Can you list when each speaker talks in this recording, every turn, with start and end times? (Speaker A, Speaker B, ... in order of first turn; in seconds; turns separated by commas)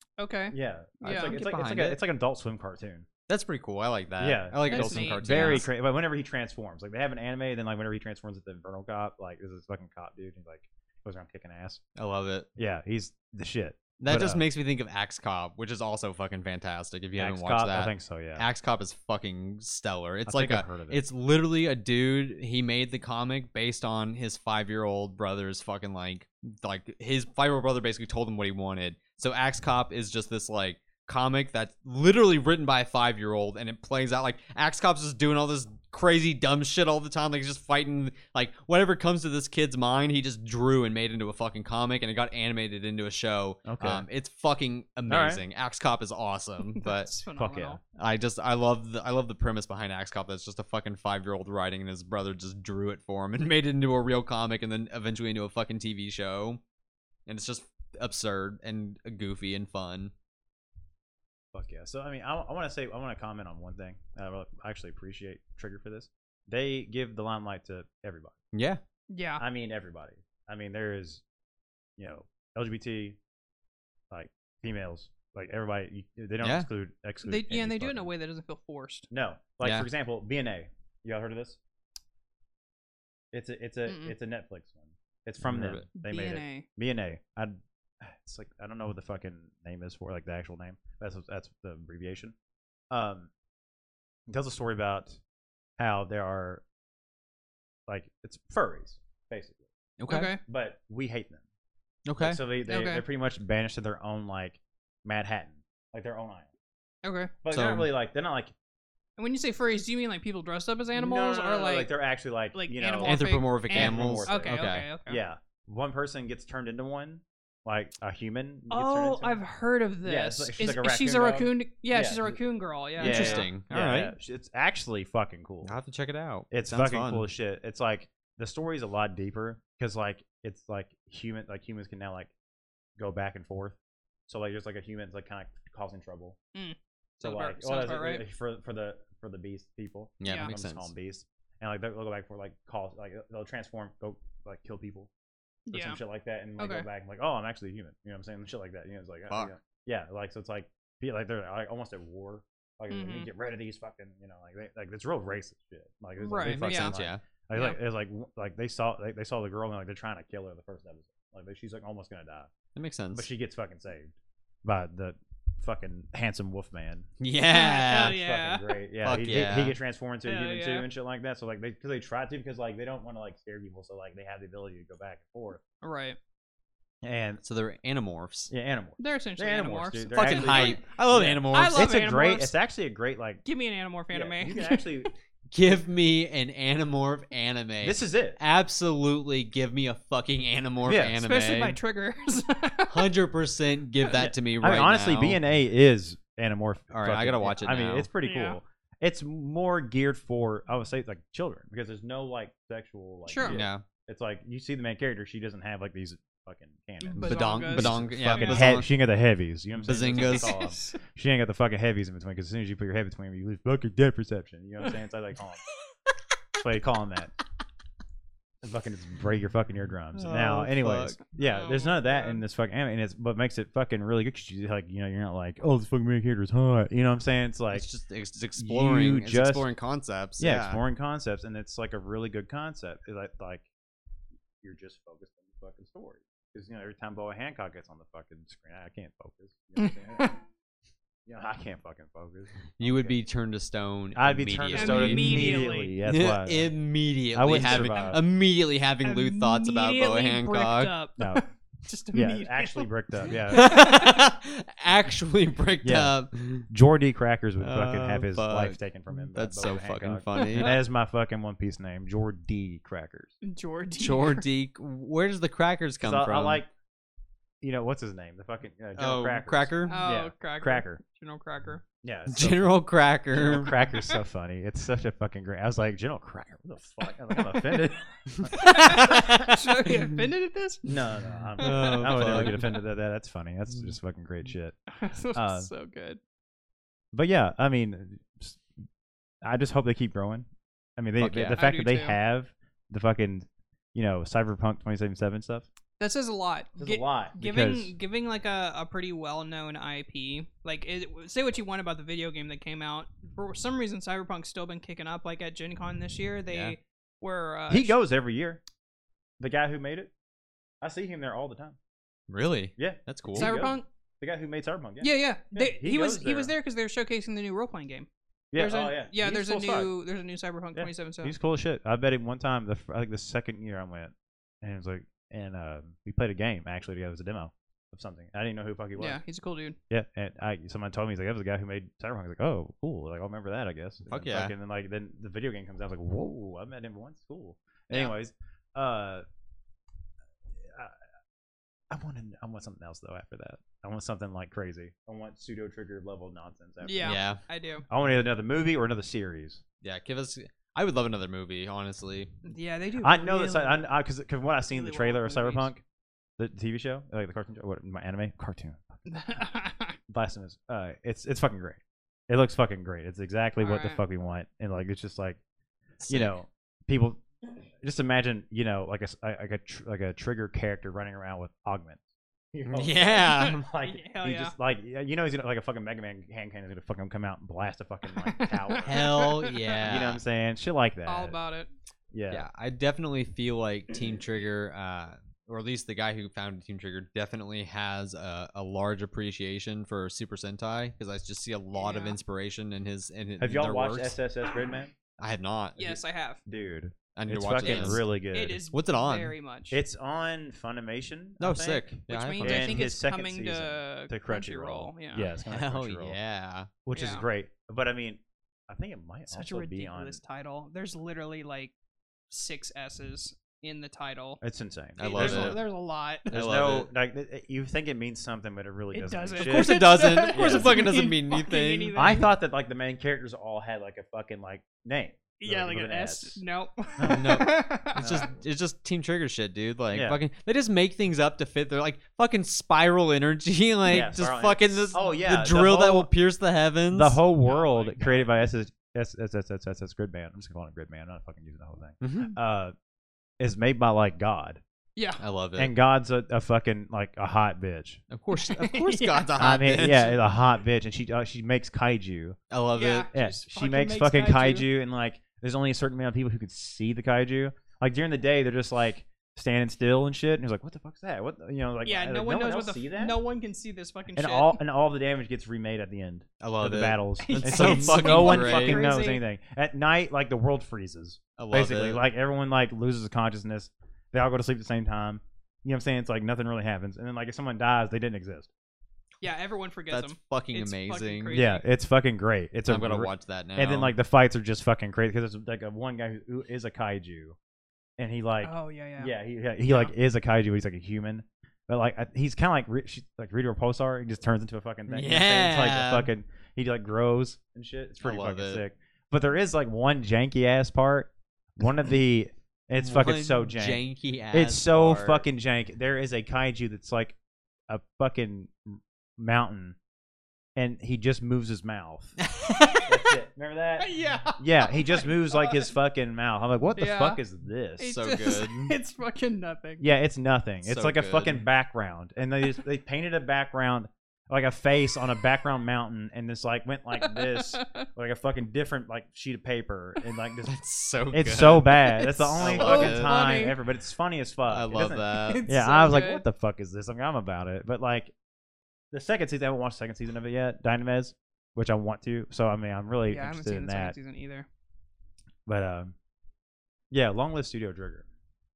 Speaker A: 0.2-1.3, Speaker B: 0.5-3.1, Speaker C: 1.1-2.0, Speaker C: 3.3-5.7, Speaker B: 4.2-11.8, Speaker A: 4.7-5.7, Speaker C: 11.9-12.5, Speaker B: 12.6-14.4, Speaker C: 14.0-47.1, Speaker B: 17.2-18.5, Speaker B: 20.3-21.0, Speaker B: 43.6-44.0, Speaker B: 45.1-45.4, Speaker A: 46.7-47.8, Speaker B: 47.4-47.8, Speaker C: 48.0-56.6, Speaker C: 57.3-60.1, Speaker B: 61.5-68.3, Speaker C: 68.5-68.8, Speaker A: 69.1-69.4, Speaker B: 69.4-71.2, Speaker B: 72.0-73.2, Speaker B: 74.1-78.1, Speaker C: 76.4-76.7, Speaker A: 77.2-79.1, Speaker B: 79.1-81.6, Speaker C: 79.6-79.9, Speaker B: 83.3-92.3, Speaker A: 83.8-84.1, Speaker C: 85.4-85.8, Speaker A: 85.9-86.7, Speaker B: 92.9-93.3, Speaker B: 94.3-95.2, Speaker B: 95.8-96.6, Speaker B: 97.9-99.6, Speaker C: 100.0-100.3, Speaker A: 100.1-100.4, Speaker B: 100.4-101.4, Speaker C: 102.0-102.4, Speaker B: 102.2-106.5, Speaker A: 102.7-103.0, Speaker A: 107.0-107.3, Speaker B: 107.4-108.5, Speaker C: 107.5-107.9, Speaker A: 109.2-111.9, Speaker B: 110.9-119.4, Speaker A: 112.5-115.2, Speaker C: 113.0-114.9, Speaker A: 118.7-123.5, Speaker B: 120.0-122.4, Speaker B: 123.0-125.7, Speaker C: 123.0-124.1, Speaker C: 125.6-127.2, Speaker B: 126.5-132.3, Speaker B: 133.0-133.8, Speaker B: 134.3-136.4, Speaker A: 136.5-138.2, Speaker B: 137.2-145.1, Speaker C: 140.2-140.9, Speaker A: 140.2-140.5, Speaker A: 145.7-146.0, Speaker B: 145.7-162.5, Speaker A: 146.6-146.9, Speaker A: 152.9-153.3, Speaker A: 156.2-156.9, Speaker C: 156.4-157.2, Speaker A: 157.5-157.8, Speaker C: 162.7-163.3, Speaker B: 163.1-164.1, Speaker B: 164.6-167.1, Speaker C: 167.2-168.2, Speaker A: 167.5-168.8, Speaker B: 167.9-175.6, Speaker C: 169.0-169.8, Speaker A: 170.2-170.9, Speaker A: 175.8-176.2, Speaker B: 177.0-177.4, Speaker C: 177.4-178.5, Speaker B: 178.5-183.4, Speaker A: 179.0-180.8, Speaker C: 180.1-181.9, Speaker A: 181.5-182.5, Speaker A: 183.4-185.1, Speaker B: 184.1-185.1, Speaker C: 185.5-191.8, Speaker B: 187.8-188.4, Speaker B: 190.8-191.2, Speaker A: 191.2-193.1, Speaker C: 192.9-195.4, Speaker B: 194.2-215.6, Speaker C: 196.9-198.1, Speaker A: 198.2-198.6, Speaker A: 203.3-203.6, Speaker C: 203.4-203.8, Speaker A: 207.0-208.8, Speaker C: 207.2-208.9, Speaker C: 209.8-210.6, Speaker A: 210.1-210.9, Speaker B: 216.5-217.3, Speaker B: 218.6-227.8, Speaker C: 220.1-221.2, Speaker A: 221.3-222.4, Speaker C: 227.7-230.8, Speaker B: 228.6-229.7, Speaker B: 230.4-233.7, Speaker B: 234.6-240.4, Speaker A: 239.8-240.4, Speaker B: 241.2-243.2, Speaker C: 242.8-250.9, Speaker B: 244.1-246.7, Speaker A: 244.7-245.9, Speaker B: 247.3-248.2, Speaker A: 247.5-248.2, Speaker A: 249.0-254.1, Speaker B: 251.2-251.4, Speaker B: 252.1-253.8, Speaker C: 253.5-256.7, Speaker B: 255.8-256.1, Speaker B: 256.7-263.3, Speaker C: 257.6-260.8, Speaker A: 260.4-260.8, Speaker A: 263.4-264.4, Speaker C: 264.0-266.6, Speaker B: 266.0-266.7, Speaker B: 267.6-271.0, Speaker C: 268.9-270.0, Speaker A: 269.9-271.8, Speaker B: 272.0-272.7, Speaker C: 272.3-273.7, Speaker B: 273.3-279.5, Speaker C: 278.3-280.1, Speaker A: 278.5-281.0, Speaker B: 280.9-284.8, Speaker A: 281.6-282.7, Speaker C: 281.6-282.8, Speaker A: 284.9-286.2, Speaker B: 285.3-285.7, Speaker B: 287.1-288.6, Speaker B: 289.4-295.6, Speaker C: 291.2-291.6, Speaker A: 291.6-292.2, Speaker A: 296.0-307.9, Speaker B: 296.8-297.9, Speaker C: 306.5-306.8, Speaker B: 307.7-308.6, Speaker B: 309.4-310.1, Speaker B: 310.8-311.8, Speaker C: 312.3-313.5, Speaker B: 312.8-316.5, Speaker A: 313.4-313.9, Speaker A: 315.0-321.3, Speaker B: 318.5-319.9, Speaker B: 320.7-329.2, Speaker A: 329.0-329.8, Speaker B: 329.9-339.2, Speaker C: 334.1-334.5, Speaker B: 340.5-341.0, Speaker B: 341.9-347.2, Speaker A: 346.8-347.9, Speaker C: 347.0-347.4, Speaker B: 347.9-349.6, Speaker C: 349.8-352.3, Speaker A: 352.4-353.9, Speaker B: 353.0-355.8, Speaker A: 354.7-355.7, Speaker B: 356.4-359.0, Speaker A: 359.1-360.0, Speaker B: 360.1-365.4, Speaker A: 363.6-364.0, Speaker C: 366.0-366.4, Speaker B: 366.1-367.2, Speaker B: 367.8-381.4, Speaker C: 372.7-373.6, Speaker A: 373.3-374.5, Speaker A: 378.2-379.8, Speaker C: 378.8-380.2, Speaker A: 381.1-381.7, Speaker B: 382.1-382.4, Speaker C: 382.3-394.2, Speaker A: 391.8-392.2, Speaker B: 393.4-394.9, Speaker C: 395.2-396.0, Speaker A: 395.8-396.4, Speaker B: 396.5-398.6, Speaker C: 397.1-398.0, Speaker A: 397.6-399.8, Speaker C: 398.7-399.3, Speaker B: 399.7-406.2, Speaker C: 401.4-402.9, Speaker A: 402.1-405.3, Speaker C: 405.5-406.7, Speaker B: 406.8-410.2, Speaker A: 406.9-407.2, Speaker A: 409.3-411.7, Speaker A: 412.3-414.4, Speaker B: 414.4-415.6, Speaker C: 415.0-415.6, Speaker A: 415.0-416.3, Speaker C: 416.3-416.9, Speaker B: 416.3-420.9, Speaker A: 418.9-422.3, Speaker C: 419.4-422.1, Speaker B: 421.9-426.4, Speaker A: 425.4-428.0, Speaker B: 427.0-427.4, Speaker C: 427.1-437.2, Speaker B: 428.0-428.3, Speaker B: 429.9-430.2, Speaker B: 433.9-436.1, Speaker B: 436.9-442.7, Speaker A: 437.4-438.3, Speaker C: 442.0-442.4, Speaker B: 443.4-444.6, Speaker A: 444.9-445.2, Speaker C: 445.2-445.7, Speaker B: 445.6-448.0, Speaker C: 448.1-450.2, Speaker A: 448.3-449.3, Speaker B: 449.4-452.4, Speaker C: 452.5-453.1, Speaker A: 452.8-454.7, Speaker B: 453.1-463.2, Speaker A: 461.8-464.6, Speaker B: 464.1-478.5, Speaker C: 466.4-468.9, Speaker A: 467.2-469.2, Speaker C: 471.4-472.0, Speaker A: 479.2-481.6, Speaker C: 479.9-481.4, Speaker B: 481.3-487.4, Speaker C: 482.7-483.9, Speaker B: 488.0-507.1, Speaker A: 488.4-489.1, Speaker A: 489.7-489.9, Speaker C: 494.9-496.1, Speaker C: 498.0-498.6, Speaker C: 502.8-505.2, Speaker B: 507.7-509.8, Speaker B: 510.6-512.2, Speaker C: 512.2-512.8, Speaker A: 512.6-513.0, Speaker B: 512.9-517.9, Speaker A: 513.8-515.7, Speaker A: 516.8-517.2, Speaker A: 517.8-519.8, Speaker C: 517.9-518.7, Speaker B: 519.8-530.5, Speaker C: 520.6-521.4, Speaker A: 527.0-527.9, Speaker C: 530.4-531.8, Speaker B: 531.1-538.1, Speaker A: 531.7-533.5, Speaker C: 532.4-533.1, Speaker C: 534.5-535.5, Speaker A: 535.2-536.2, Speaker B: 538.9-544.0, Speaker A: 543.1-544.5, Speaker B: 545.5-545.9, Speaker B: 546.9-548.1